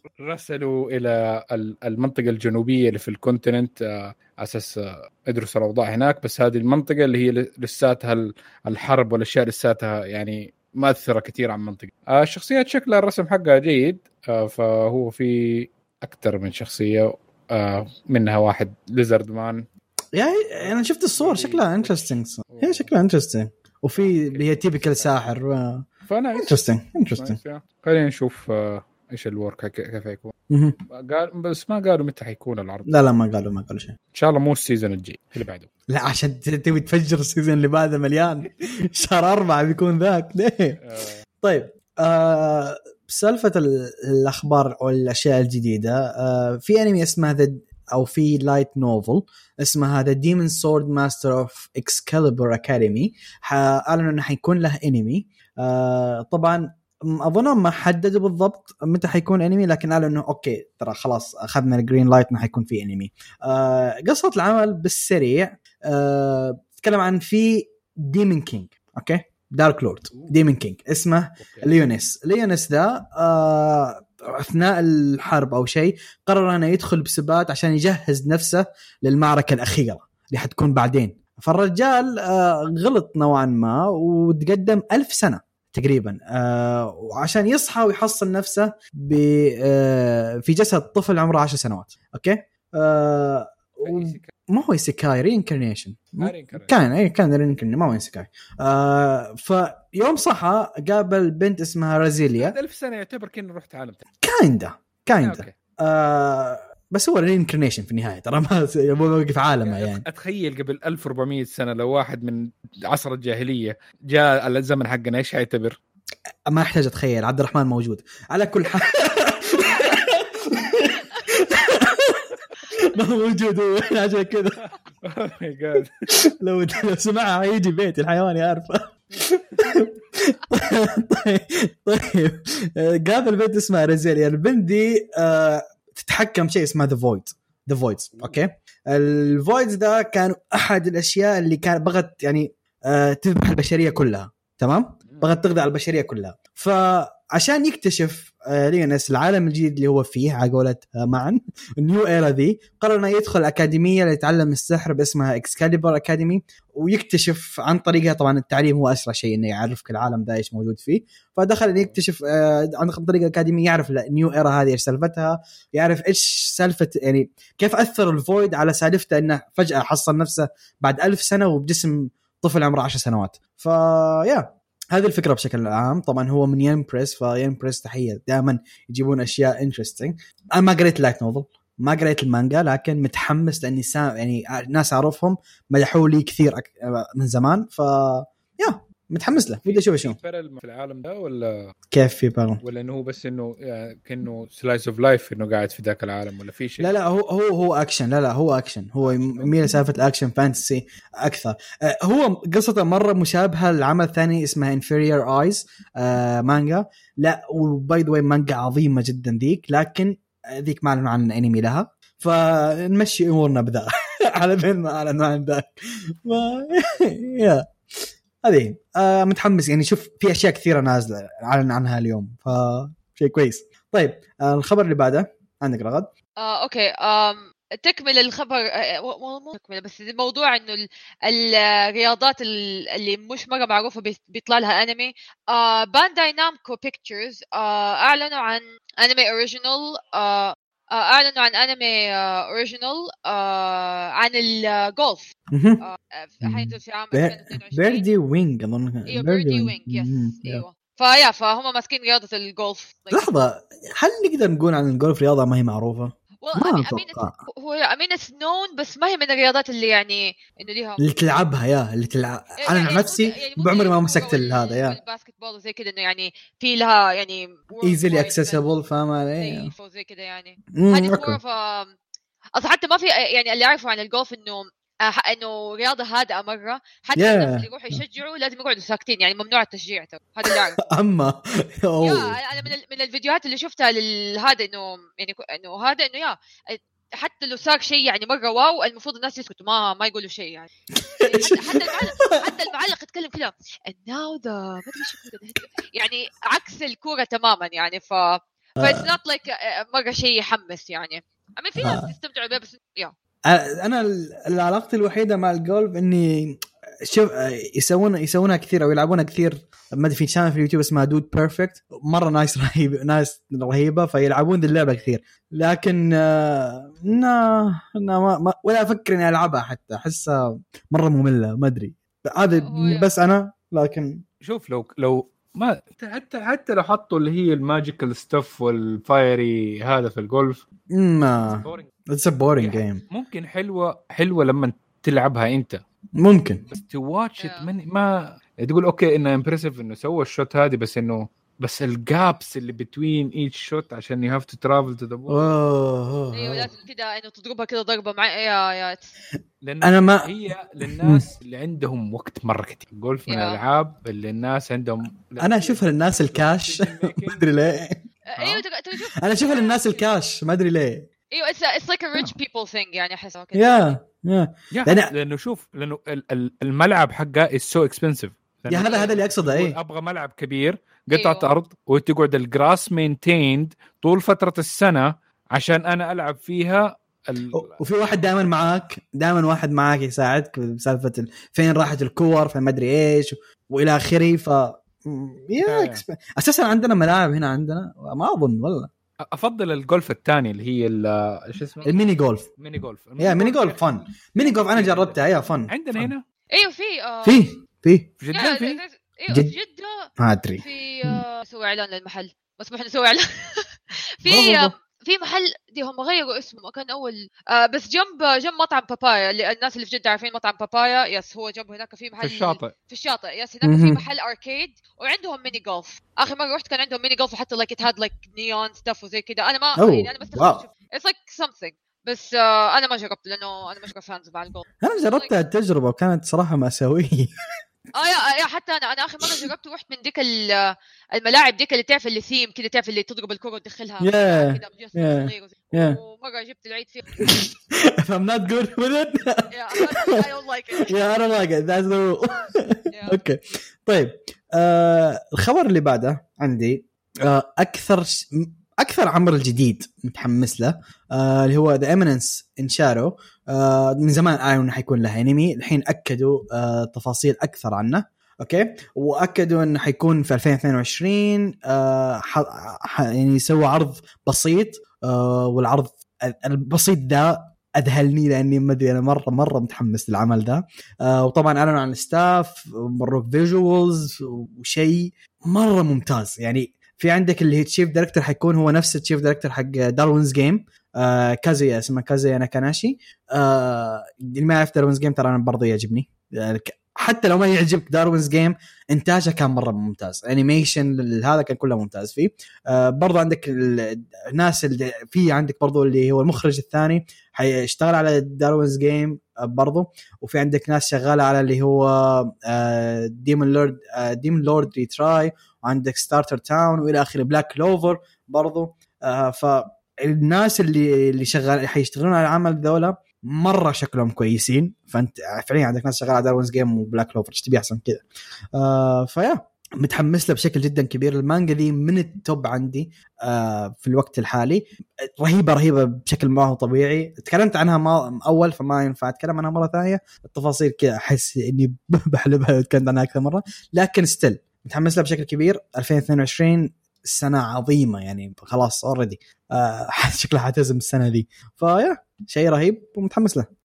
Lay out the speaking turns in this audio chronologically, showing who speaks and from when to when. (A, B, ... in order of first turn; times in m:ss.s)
0:00.2-0:19.6 A
0:20.1-0:27.4 B
0:20.6-0:22.9 A
0:24.0-0:25.1 A
0:26.1-0:30.3 A
0:30.5-0:30.8 B
0:30.9-0:32.9 A
0:32.9-0:34.0 B
0:34.1-0:35.7 A
0:35.9-0:40.8 B
0:40.8-0:41.2 A
0:41.4-1:42.6 B
1:11.4-1:11.7 A
1:33.8-1:34.3 A
1:36.2-1:36.7 A
1:42.4-1:44.0 A
1:44.2-1:50.0 B
1:45.2-1:45.5 A
1:49.6-1:55.8 A
1:56.5-2:04.6 B
2:05.0-2:05.9 A
2:06.3-3:10.2 B
2:09.6-2:09.8 A
3:09.6-3:11.7 A
3:11.9-3:12.6 B
3:12.6-3:16.9 A
3:16.8-3:46.1 B
3:19.0-3:19.6 A
3:46.4-4:08.0 C
4:05.5-4:05.8 B
4:06.4-4:10.6 B
4:09.0-4:13.3 C
4:13.1-4:17.3 B
4:16.4-4:21.0 C
4:21.0-4:25.0 B
4:22.6-4:28.6 C
4:27.8-4:29.7 B
4:29.4-4:31.9 C
4:30.7-4:31.4 B
4:32.6-4:40.8 C
4:37.2-4:38.0 B
4:40.5-4:42.4 B
4:42.0-4:50.7 C
4:51.2-4:52.5 B
4:51.2-5:03.1 C
4:58.8-4:59.1 B
5:01.8-5:02.1 B
5:03.5-5:24.2 B
5:22.5-5:23.1 C
5:24.4-5:30.6 A
5:30.9-5:33.0 B
5:31.6-5:31.9 A
5:32.6-5:35.8 A
5:36.2-5:36.6 B
5:36.7-5:45.5 A
5:37.4-5:37.7 C
5:45.3-5:46.7 B
5:46.3-5:49.1 C
5:49.6-5:57.4 A
5:49.8-5:50.3 B
5:50.8-5:51.2 B
5:53.3-5:53.6 C
5:55.4-5:58.0 B
5:58.3-6:00.1 C
5:58.9-6:01.1 B
6:01.3-6:04.0 C
6:03.5-6:05.1 B
6:04.7-6:17.6 A
6:08.7-6:09.8 B
6:08.8-6:09.1 C
6:11.1-6:11.5 C
6:17.5-6:28.9 B
6:25.6-6:26.0 A
6:29.2-6:31.9 A
6:31.8-6:32.5 B
6:32.6-6:35.2 A
6:33.2-6:36.1 B
6:35.7-6:36.2 A
6:36.5-6:37.6 C
6:37.2-6:38.1 B
6:38.2-6:38.8 A
6:38.3-6:40.1 C
6:40.2-6:41.2 B
6:40.6-7:05.3 C
6:44.2-6:44.7 B
6:52.2-6:52.7 A
6:53.6-6:54.0 B
6:59.8-7:00.6 B
7:04.8-7:07.3 B
7:07.9-7:17.1 C
7:14.0-7:16.0 B
7:17.2-7:20.2 B
7:19.5-7:21.0 C
7:20.8-8:38.0 B
7:22.9-7:23.2 C
8:38.6-9:03.5 B